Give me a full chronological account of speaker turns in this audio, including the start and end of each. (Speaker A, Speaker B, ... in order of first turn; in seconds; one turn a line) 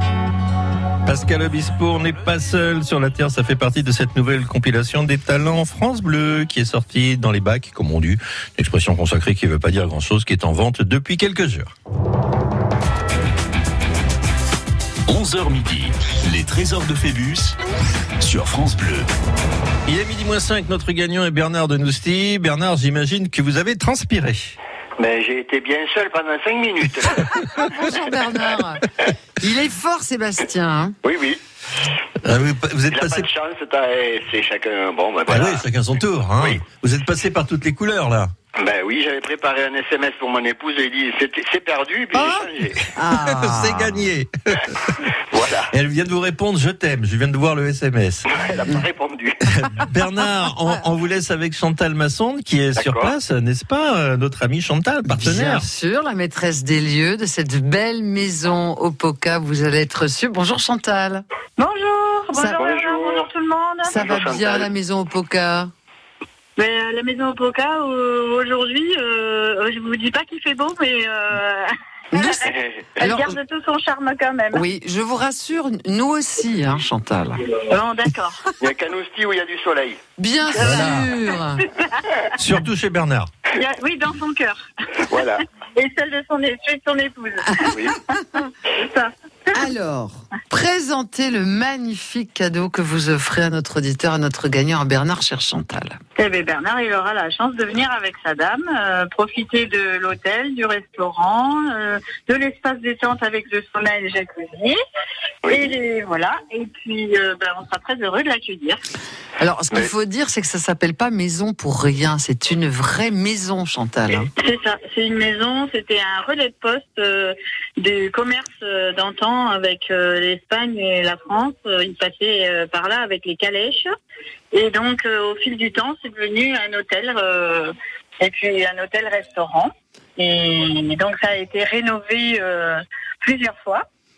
Speaker A: 1.1-11.7
Speaker B: 15.1-17.6
Speaker B: 18.2-19.1
Speaker A: 19.9-24.6
Speaker C: 25.0-27.6
Speaker D: 27.5-28.9
Speaker D: 29.4-31.0
Speaker C: 31.0-31.4
Speaker A: 32.2-33.3
Speaker C: 32.9-35.6
Speaker A: 35.3-38.3
Speaker C: 38.6-42.9
Speaker D: 42.1-44.1
Speaker A: 43.2-45.0
Speaker C: 45.3-45.7
Speaker A: 45.7-48.3
Speaker C: 48.3-49.5
Speaker A: 49.5-55.7
Speaker C: 52.8-53.1
Speaker D: 55.1-61.2
Speaker E: 61.6-64.0
Speaker D: 62.3-62.6
Speaker C: 62.5-63.3
Speaker D: 63.9-65.7
Speaker C: 64.0-64.7
Speaker E: 66.6-74.6
Speaker D: 72.1-73.4
Speaker C: 72.5-72.8
Speaker D: 74.5-77.6
Speaker E: 77.7-78.4
Speaker C: 78.6-80.0
Speaker D: 80.2-81.7
Speaker E: 80.6-81.0
Speaker A: 80.6-81.1
Speaker E: 81.6-82.1
Speaker A: 82.4-83.3
Speaker E: 83.5-84.7
Speaker C: 85.0-85.4
Speaker E: 85.8-89.6
Speaker C: 87.7-88.0
Speaker D: 89.5-96.0
Speaker E: 96.2-104.8
Speaker C: 105.5-105.7
Speaker E: 105.5-108.8
Speaker D: 109.4-114.3
Speaker E: 114.4-124.0
Speaker E: 124.5-133.8